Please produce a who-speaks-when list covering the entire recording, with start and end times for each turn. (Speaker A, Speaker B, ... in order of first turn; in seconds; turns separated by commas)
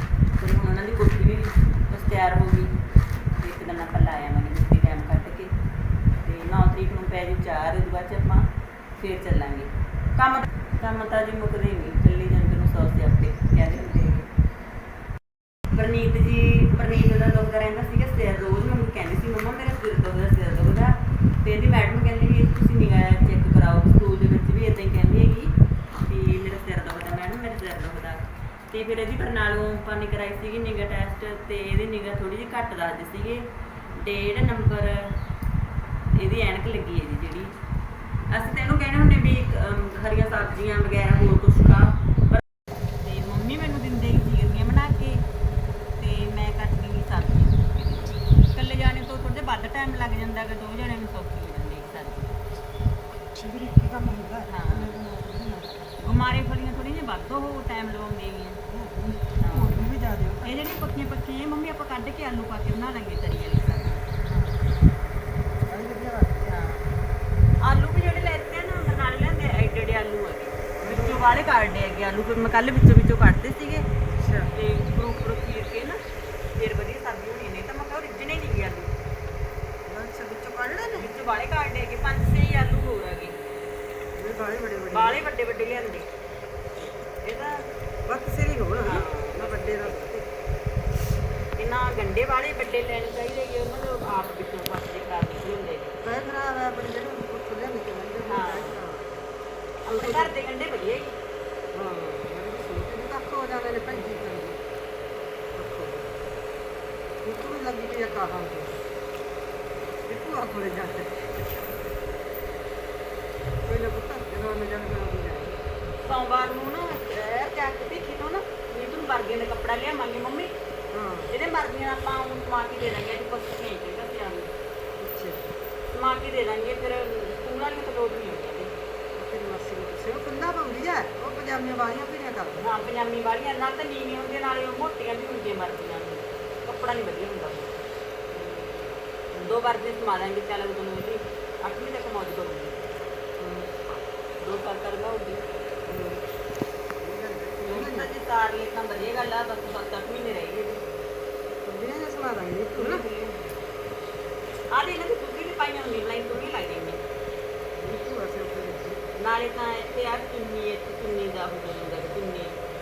Speaker A: 0.4-2.8, Speaker A: 3.4-5.5, Speaker A: 6.2-8.5, Speaker A: 9.0-14.3, Speaker A: 15.7-25.5, Speaker A: 26.1-33.4, Speaker A: 33.9-35.0, Speaker A: 36.1-37.5, Speaker A: 38.3-42.4, Speaker A: 43.0-45.2, Speaker A: 46.0-52.3, Speaker B: 53.3-55.8, Speaker A: 54.5-55.0, Speaker A: 56.0-58.6, Speaker B: 58.7-60.6, Speaker A: 59.4-59.8, Speaker A: 60.4-64.0, Speaker B: 64.3-64.5, Speaker B: 65.7-66.7, Speaker A: 67.6-73.9, Speaker B: 70.8-71.2, Speaker B: 74.1-74.5, Speaker A: 74.5-76.0, Speaker A: 76.6-78.9, Speaker B: 79.9-81.1, Speaker A: 81.0-83.3, Speaker B: 84.1-85.3, Speaker A: 84.9-86.1, Speaker A: 87.2-87.5, Speaker B: 88.0-90.2, Speaker A: 88.8-90.2, Speaker A: 91.6-96.0, Speaker B: 96.0-99.2, Speaker A: 98.2-98.8, Speaker A: 99.9-101.1, Speaker B: 99.9-100.3, Speaker B: 101.7-104.6, Speaker B: 105.5-106.2, Speaker B: 107.2-108.8, Speaker B: 110.0-111.1, Speaker B: 113.6-115.6, Speaker A: 116.0-120.5, Speaker B: 120.9-121.3, Speaker A: 121.3-124.5, Speaker B: 125.0-125.5, Speaker A: 125.9-128.7, Speaker B: 129.2-132.6, Speaker A: 132.6-137.8, Speaker B: 138.3-139.6, Speaker A: 139.4-142.8, Speaker B: 143.4-143.7, Speaker A: 144.4-145.4, Speaker B: 145.8-146.2, Speaker B: 147.0-148.1, Speaker A: 147.6-150.8, Speaker B: 151.6-153.0, Speaker A: 152.8-153.4, Speaker A: 154.7-157.0, Speaker B: 157.8-159.0, Speaker A: 159.2-162.6